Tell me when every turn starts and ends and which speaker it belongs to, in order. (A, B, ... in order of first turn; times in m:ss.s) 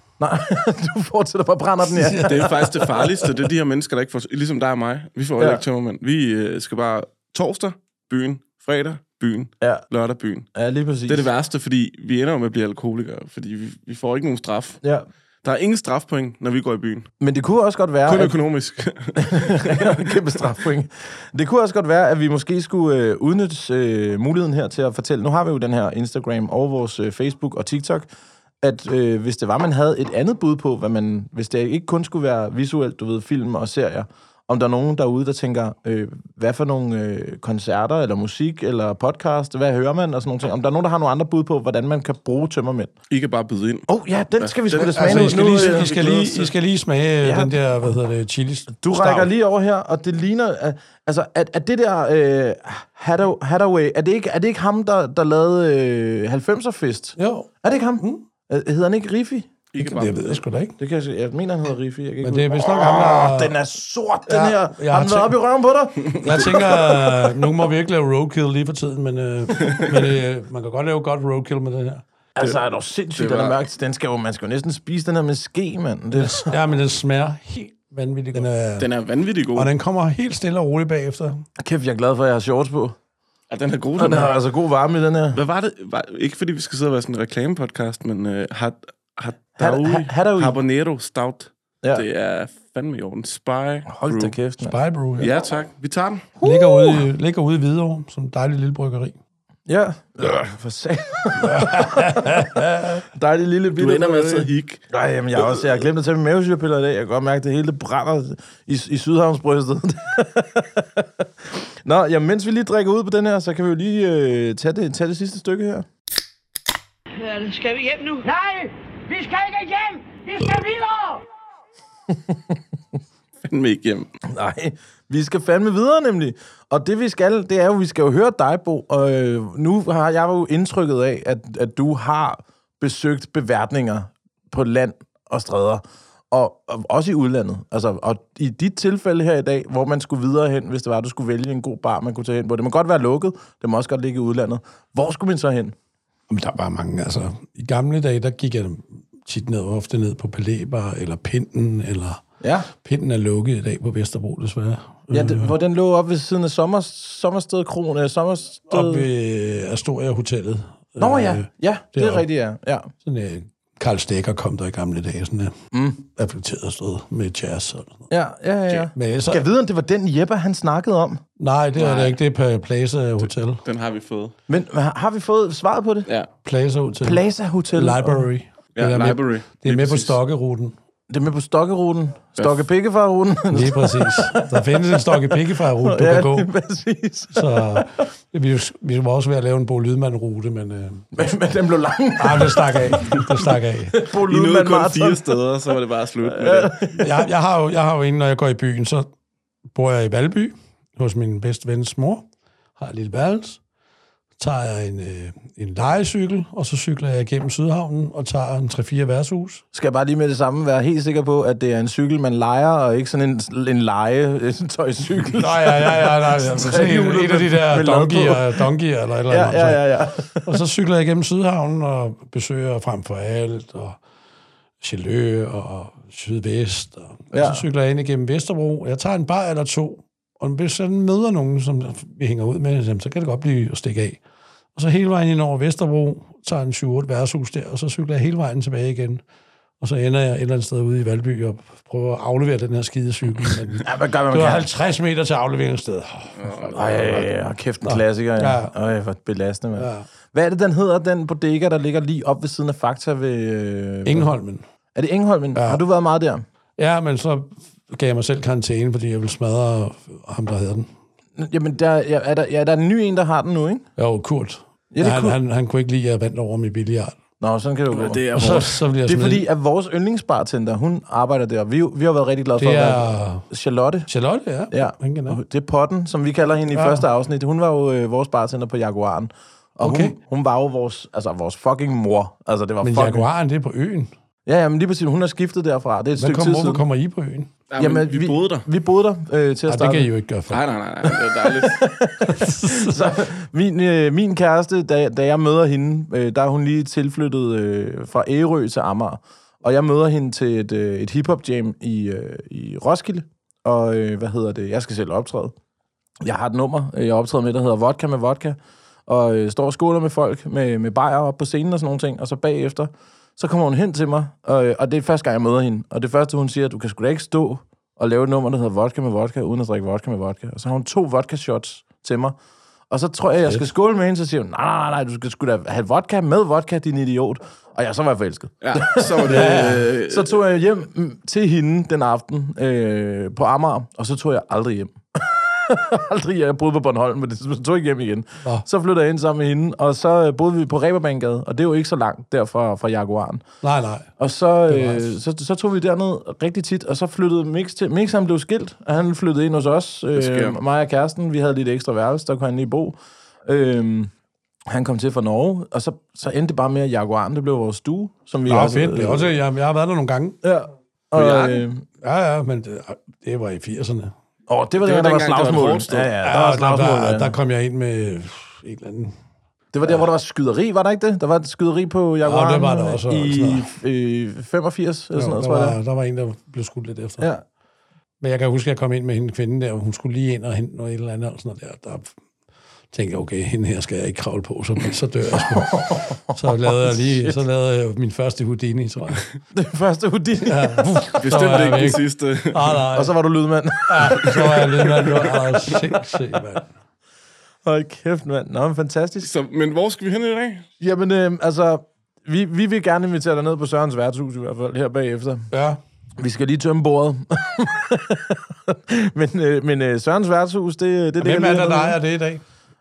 0:00.2-0:03.0 A
0:01.8-0:02.8 B
0:02.2-0:10.5 C
0:05.4-0:05.6 A
0:10.6-0:11.3 A
0:11.1-0:14.8 C
0:15.4-0:17.1 C
0:17.2-0:18.4 A
0:18.0-0:20.2 C
0:19.2-0:28.1 A
0:28.6-0:42.9 A
0:43.1-0:43.9 C
0:43.9-0:46.1 A
0:44.4-0:46.5 C
0:44.7-0:49.3 B
0:47.2-0:47.6 A
0:48.8-0:59.5 A
0:57.2-0:58.2 B
0:59.7-1:00.4 C
0:59.8-1:00.8 B
1:00.8-1:07.3 A
1:02.2-1:03.6 B
1:04.3-1:05.4 B
1:06.2-1:12.0 B
1:09.6-1:09.9 C
1:12.4-1:16.6 A
1:13.2-1:13.6 C
1:16.1-1:18.9 B
1:18.8-1:19.7 C
1:19.5-1:21.4 B
1:21.6-1:23.0 A
1:23.5-1:24.3 C
1:24.0-1:25.4 A
1:25.3-1:34.4 C
1:29.6-1:30.6 A
1:33.9-1:34.7 A
1:34.6-1:35.3 B
1:35.2-1:36.3 C
1:36.4-1:37.0 A
1:36.4-1:39.2 B
1:39.7-1:55.9 A
1:41.4-1:43.0 B
1:43.8-1:44.8 C
1:45.4-1:45.7 C
1:57.2-2:01.2 D
2:02.1-2:02.6 A
2:03.4-2:04.1 C
2:04.2-2:25.8 A
2:26.3-2:35.5 B
2:32.4-2:32.7 A
2:35.1-2:39.1 A
2:38.7-2:42.2 B
2:41.0-2:42.9 A
2:43.0-2:45.5 B
2:45.7-2:46.0 A
2:46.0-2:48.1 B
2:48.1-2:51.2 A
2:48.9-2:49.4 B
2:51.4-2:53.6 B
2:51.8-2:52.2 C
2:53.6-2:54.3 C
2:54.5-2:56.1 A
2:56.4-3:00.7 B
2:57.0-2:58.2 A
2:58.7-3:00.2 C
3:01.1-3:08.1 A
3:02.4-3:02.6 C
3:03.5-3:06.5 B
3:07.3-3:11.3 B
3:11.1-3:13.2 A
3:12.2-3:14.0 B
3:13.9-3:15.4 A
3:14.3-3:16.7 C
3:16.2-3:17.3 A
3:17.0-3:19.1 B
3:19.7-3:22.3 B
3:22.8-3:23.6 B
3:24.4-3:29.6 B
3:29.7-3:38.7 A
3:35.3-3:39.9 B
3:39.3-3:40.6 A
3:40.4-3:44.0 B
3:44.8-3:54.2 B
3:47.3-3:47.6 A
3:54.7-3:59.2 B
3:59.8-4:07.3 B
4:03.8-4:04.7 A
4:06.4-4:07.1 C
4:06.7-4:14.3 A
4:07.8-4:08.7 B
4:09.7-4:10.1 B
4:14.0-4:14.6 B
4:15.0-4:16.4 A
4:15.6-4:15.8 B
4:16.8-4:20.9 B
4:21.4-4:23.9 A
4:24.0-4:27.2 B
4:24.9-4:25.4 A
4:27.4-4:34.1 A
4:27.9-4:28.8 C
4:28.3-4:29.5 B
4:32.6-4:33.4 B
4:34.1-4:35.4 B
4:34.7-4:43.3 A
4:36.7-4:37.0 B
4:39.8-4:40.1 B
4:42.8-4:44.1 B
4:44.4-4:46.8 A
4:46.2-4:47.5 B
4:47.7-4:48.6 C
4:47.8-4:50.1 A
4:49.7-4:50.6 B
4:50.5-4:51.8 C
4:51.4-5:05.5 A
4:52.3-4:53.1 B
5:06.2-5:22.4 A
5:22.9-5:43.4 A
5:28.6-5:30.4 C
5:29.3-5:29.9 B
5:43.6-5:44.1 B
5:44.2-5:54.1 A
5:44.7-5:45.1 B
5:50.1-5:50.6 C
5:54.7-5:59.3 A
5:58.4-6:00.4 B
6:00.4-6:01.9 A
6:01.1-6:04.1 B
6:04.5-6:07.3 A
6:04.8-6:06.1 C
6:06.2-6:09.1 B
6:09.7-6:15.8 A
6:12.2-6:13.7 B
6:15.1-6:17.3 B
6:18.2-6:22.1 B
6:22.9-6:29.3 B
6:25.4-6:27.4 A
6:29.5-6:31.0 A
6:30.4-6:33.1 B
6:31.2-6:32.8 C
6:32.9-6:36.1 A
6:33.9-6:36.7 B
6:37.6-6:39.3 A
6:39.2-6:40.6 C
6:40.8-6:45.5 A
6:45.5-6:45.8 B
6:46.2-6:52.0 A
6:51.2-6:52.4 B